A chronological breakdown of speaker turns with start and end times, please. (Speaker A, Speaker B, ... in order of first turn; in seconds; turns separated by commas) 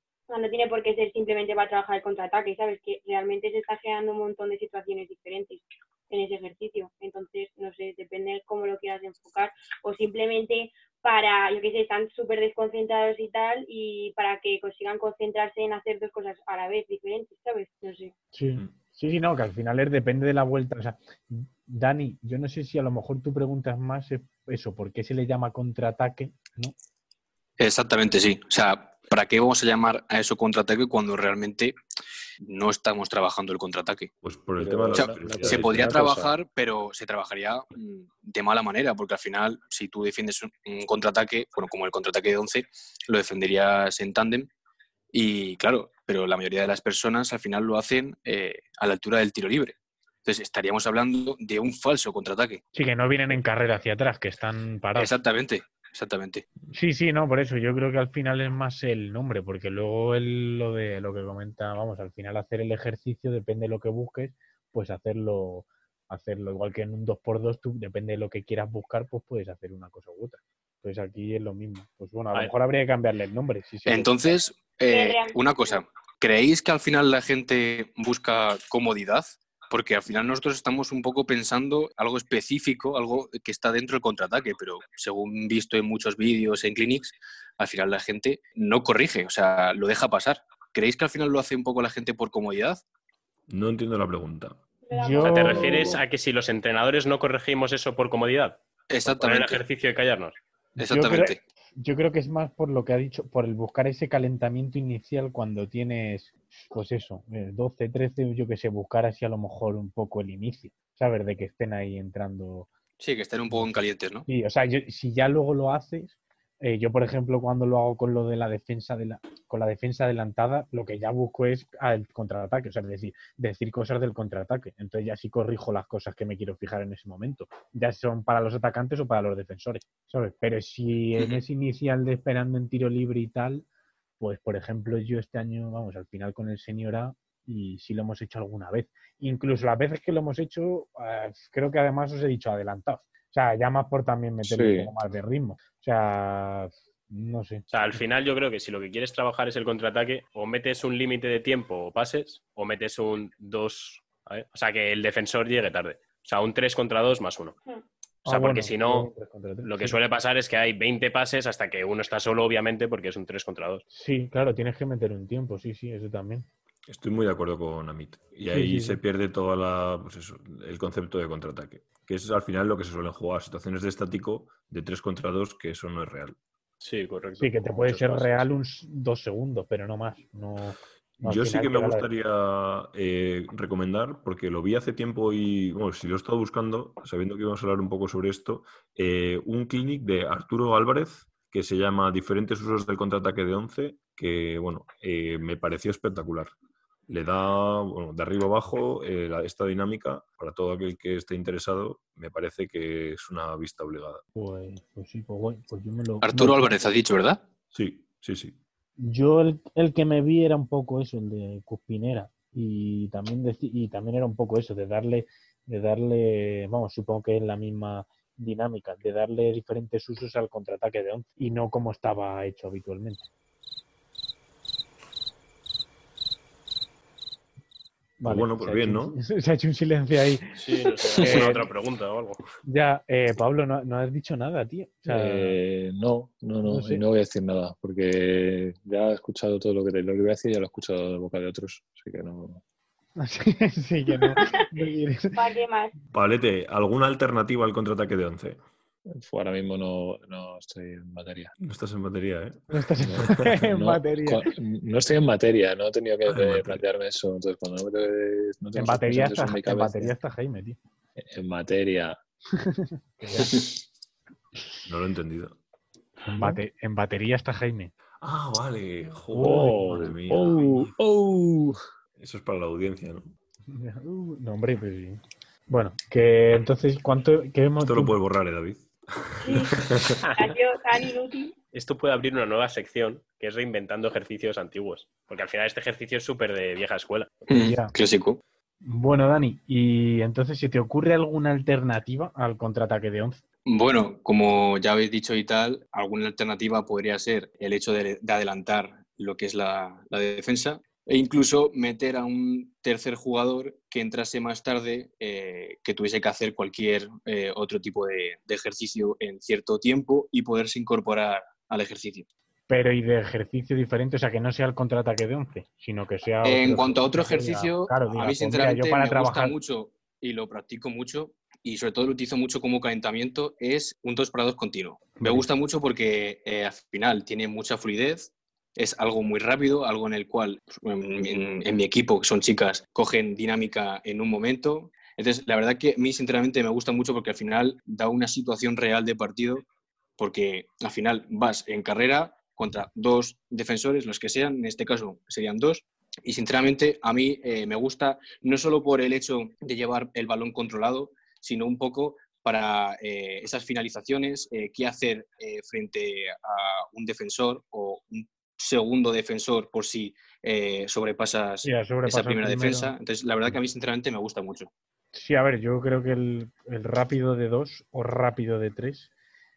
Speaker A: 0.3-18.1, Speaker B: 18.3-26.8, Speaker C: 27.6-31.8, Speaker C: 32.4-34.1, Speaker D: 34.2-36.1, Speaker E: 34.6-36.4, Speaker C: 34.9-44.5, Speaker C: 45.1-52.6, Speaker B: 52.7-55.2, Speaker C: 54.9-56.5, Speaker B: 56.7-74.1, Speaker C: 73.8-92.8, Speaker A: 74.9-75.8, Speaker D: 93.5-94.6, Speaker A: 94.8-95.9, Speaker B: 94.9-95.9, Speaker F: 95.2-100.4, Speaker D: 95.6-96.0, Speaker C: 98.9-99.6, Speaker B: 100.8-112.7, Speaker C: 100.8-101.4, Speaker C: 113.0-114.3, Speaker B: 113.5-133.7, Speaker B: 134.2-147.6, Speaker E: 144.4-144.9, Speaker F: 147.7-157.6, Speaker B: 158.2-160.0, Speaker F: 158.2-159.1, Speaker F: 159.6-163.8, Speaker B: 163.9-166.5, Speaker D: 166.9-176.4, Speaker B: 168.5-169.0, Speaker F: 176.8-178.5, Speaker B: 177.4-182.1, Speaker D: 181.2-196.5, Speaker D: 197.1-204.2, Speaker B: 204.3-206.7, Speaker C: 206.2-207.4, Speaker D: 207.7-208.6, Speaker B: 209.0-223.2, Speaker B: 228.2-230.6, Speaker D: 228.2-229.2, Speaker F: 230.6-232.4, Speaker B: 231.1-231.7, Speaker B: 232.6-235.6, Speaker E: 235.0-242.6, Speaker B: 236.6-237.0, Speaker B: 243.2-245.4, Speaker A: 245.4-245.9, Speaker D: 246.1-248.6, Speaker E: 249.2-251.5, Speaker D: 251.6-253.6, Speaker B: 252.7-254.5, Speaker E: 253.7-260.1, Speaker D: 256.2-256.9, Speaker B: 258.7-260.8, Speaker E: 261.2-262.2, Speaker B: 262.6-263.6, Speaker D: 264.9-265.6, Speaker B: 266.2-267.9, Speaker D: 268.2-270.5, Speaker B: 269.3-270.9, Speaker E: 269.3-271.8, Speaker D: 272.2-273.4, Speaker B: 273.7-278.2, Speaker D: 277.8-280.2, Speaker A: 279.4-279.8, Speaker A: 280.4-281.5, Speaker F: 281.7-287.4, Speaker B: 287.5-287.9, Speaker C: 287.5-288.4, Speaker B: 288.8-293.4, Speaker C: 293.6-312.3, Speaker B: 312.7-319.5, Speaker C: 316.4-339.6, Speaker B: 325.2-325.5, Speaker C: 340.2-364.7, Speaker B: 361.6-362.9, Speaker B: 365.1-369.1